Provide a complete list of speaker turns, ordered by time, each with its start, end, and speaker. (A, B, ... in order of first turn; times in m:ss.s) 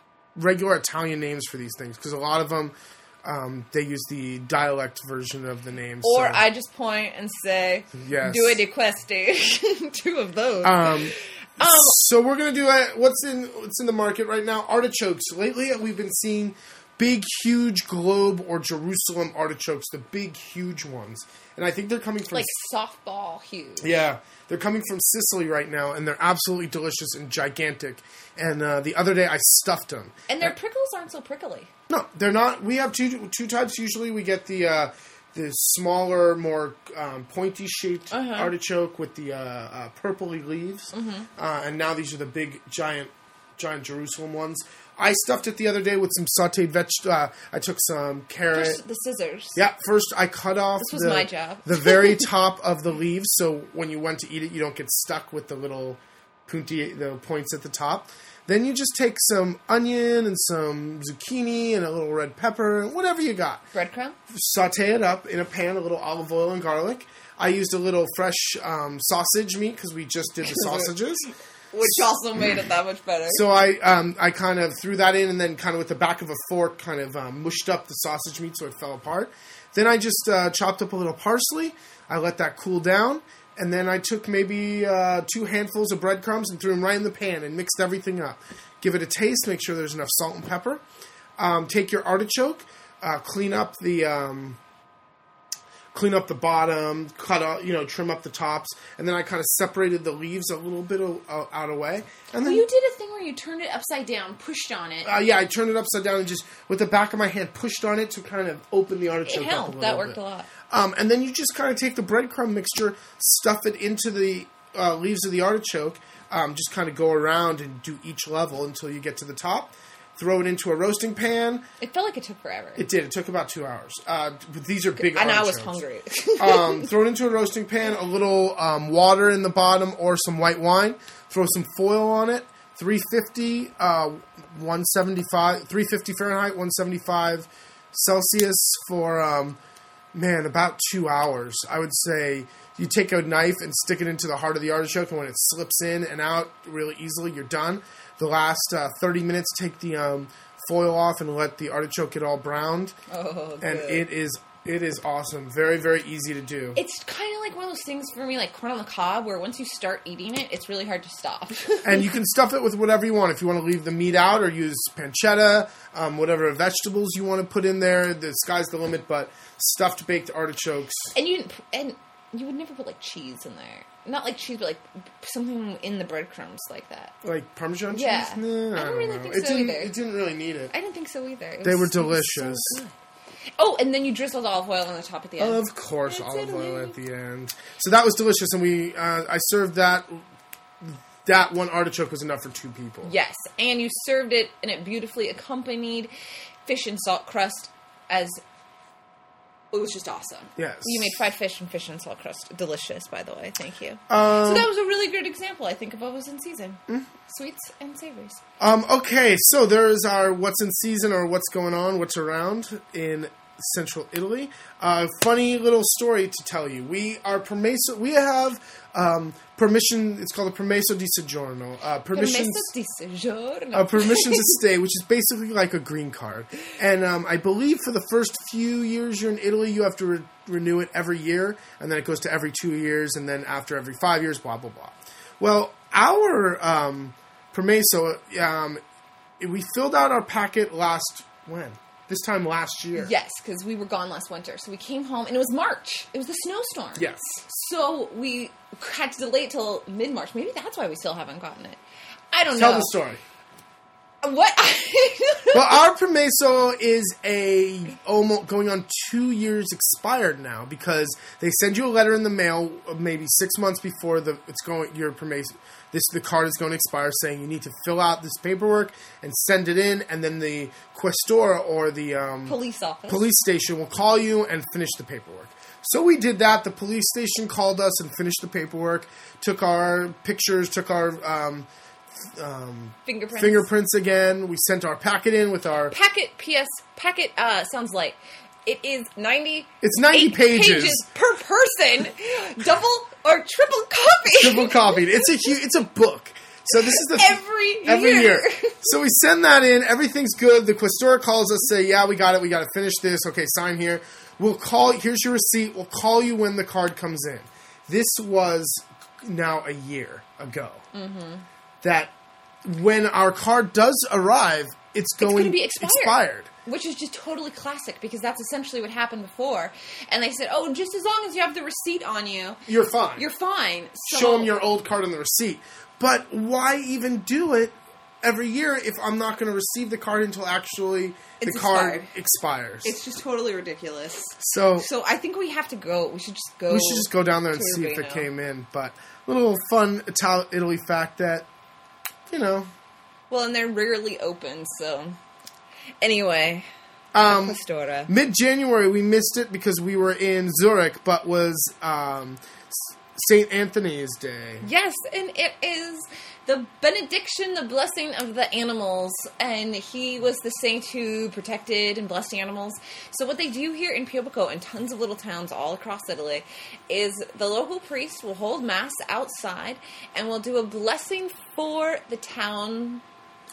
0:00.3-0:06.4 A
0:06.0-0:12.0 B
0:07.9-0:08.6 A
0:10.6-0:22.5 A
0:22.3-0:23.9 B
0:23.8-0:30.5 A
0:30.3-0:31.7 B
0:31.9-0:48.8 A
0:38.1-0:38.5 B
0:40.9-0:41.3 B
0:48.5-0:49.6 B
0:49.6-1:03.6 A
0:50.8-0:52.2 B
1:03.7-1:04.2 B
1:04.3-1:11.3 A
1:10.4-1:10.9 B
1:11.7-1:13.4 B
1:13.3-1:30.8 A
1:31.4-1:34.6 A
1:35.9-1:42.6 A
1:42.4-1:45.1 B
1:45.0-1:50.2 A
1:49.2-1:50.5 B
1:50.7-2:01.6 A
2:01.8-2:02.8 B
2:02.8-2:05.8 A
2:05.0-2:06.9 B
2:06.4-2:19.6 A
2:20.1-2:33.0 A
2:33.1-2:34.0 B
2:33.6-2:36.8 A
2:36.8-2:42.1 B
2:41.8-2:51.1 A
2:51.1-2:57.1 B
2:57.2-3:00.7 A
2:57.9-2:59.9 B
3:00.7-3:02.9 B
3:01.6-3:02.8 A
3:03.6-3:07.0 B
3:05.4-3:10.2 A
3:10.8-3:13.1 A
3:13.0-3:16.1 B
3:16.6-3:18.4 B
3:19.7-3:28.4 B
3:20.6-3:21.1 A
3:24.1-3:24.7 A
3:28.6-3:42.7 A
3:42.1-3:44.6 B
3:43.7-3:58.8 A
3:59.4-4:03.1 A
4:03.0-4:11.8 B
4:07.0-4:07.2 A
4:12.3-4:12.9 B
4:12.5-4:13.2 A
4:14.2-4:15.8 B
4:15.5-4:32.6 A
4:32.4-4:33.3 B
4:33.1-4:41.7 A
4:42.2-4:45.9 A
4:43.0-4:43.6 B
4:45.9-4:55.3 B
4:49.8-4:51.0 A
4:54.4-5:10.8 A
4:56.8-4:58.8 B
5:10.9-5:11.4 B
5:11.8-5:12.1 A
5:12.6-5:16.5 A
5:15.2-5:22.6 B
5:22.7-5:23.2 A
5:23.2-5:24.5 B
5:24.0-5:33.0 A
5:31.4-5:32.1 B
5:32.8-5:38.3 B
5:34.4-5:34.9 A
5:36.7-5:41.5 A
5:42.3-5:42.7 A
5:43.3-5:45.2 B
5:46.0-5:46.7 B
5:47.1-5:54.7 A
5:47.2-5:48.1 B
5:54.6-6:13.0 B